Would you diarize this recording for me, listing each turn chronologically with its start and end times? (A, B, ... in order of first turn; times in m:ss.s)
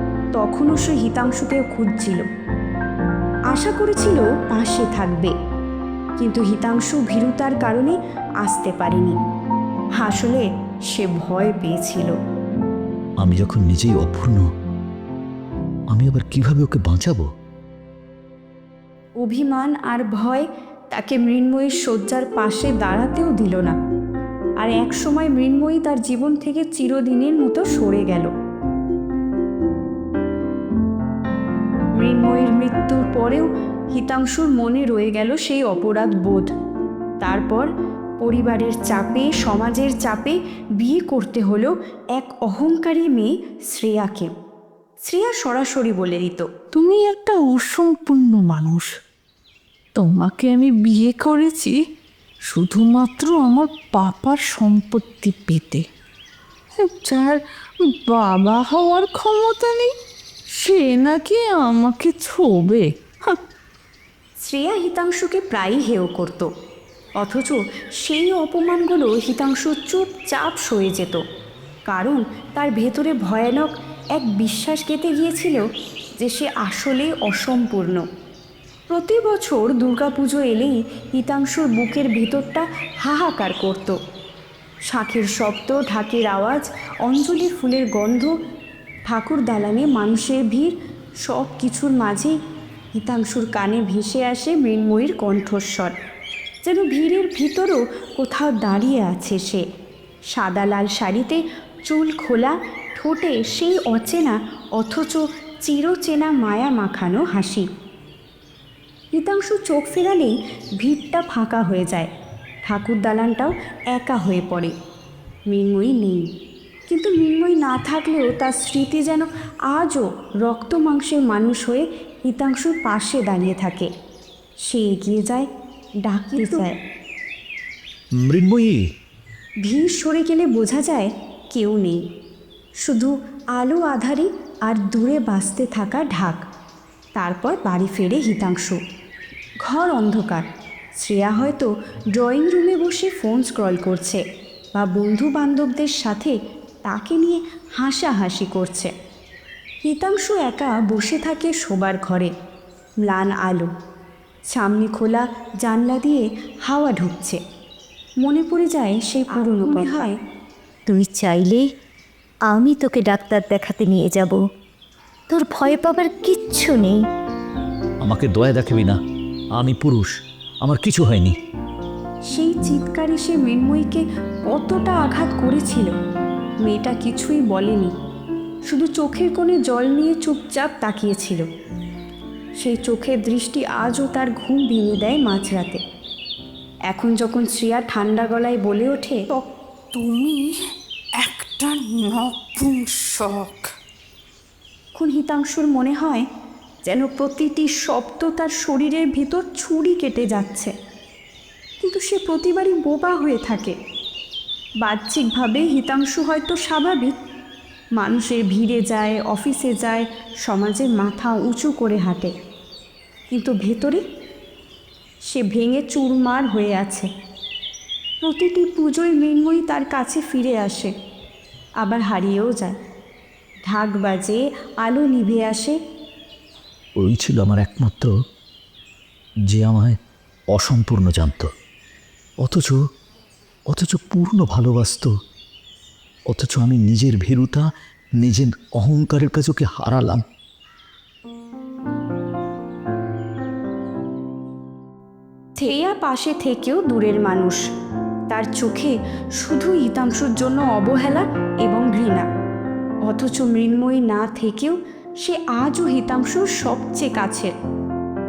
0:00.4-0:02.2 A
0:03.5-0:05.3 A
0:06.2-0:09.2 A
0:10.0-0:12.2 A
0:13.2-0:14.4 B
0:15.9-0:17.3 B
0:19.2-0:23.7 A
0:24.6-0:28.3 A
0:32.0-0:36.5 A
0:37.2-0:37.7 A
0:38.2-0:44.3 A
0:45.1-0:46.5 A
0:46.7-0:48.9 C
0:50.0-0:51.8 C
0:52.5-0:55.8 C
0:56.8-0:59.9 C
1:00.6-1:03.4 C
1:04.4-1:06.5 A
1:07.2-1:11.2 A
1:11.9-1:15.6 A
1:16.2-1:18.0 A
1:18.9-1:24.0 A
1:24.9-1:28.3 A
1:29.1-1:32.4 A
1:33.0-1:35.9 A
1:36.6-1:39.6 A
1:40.3-1:47.7 A
1:49.2-1:52.1 A
1:52.6-1:54.7 A
1:55.5-1:56.3 A
1:56.9-2:03.9 A
2:04.7-2:05.5 A
2:06.0-2:06.7 A
2:06.4-2:06.7 D
2:08.2-2:08.8 B
2:09.6-2:12.0 A
2:12.8-2:16.4 A
2:17.2-2:18.8 A
2:19.6-2:20.5 A
2:21.0-2:24.2 A
2:24.8-2:28.9 A
2:29.8-2:32.3 A
2:33.0-2:33.7 A
2:34.5-2:37.4 A
2:38.2-2:40.1 A
2:40.9-2:41.6 D
2:42.5-2:44.4 D
2:45.3-2:47.0 D
2:48.0-2:49.0 B
2:49.6-2:51.4 B
2:52.3-2:55.9 A
2:56.6-2:57.9 A
2:58.7-3:01.4 A
3:02.6-3:05.8 A
3:06.9-3:09.2 A
3:09.3-3:10.5 C
3:11.2-3:13.7 C
3:15.0-3:16.2 A
3:16.9-3:20.7 A
3:21.8-3:23.8 A
3:24.8-3:27.1 A
3:28.0-3:32.3 A
3:33.3-3:34.0 A
3:35.3-3:37.1 A
3:38.2-3:40.9 A
3:41.8-3:42.7 A
3:43.7-3:45.8 A
3:47.0-3:48.1 B
3:49.5-3:50.0 B
3:50.5-3:51.5 B
3:52.4-3:52.8 B
3:53.7-3:55.1 B
3:56.3-3:57.7 B
3:58.2-4:00.2 B
4:05.6-4:07.6 A
4:08.3-4:12.3 A
4:13.1-4:17.5 A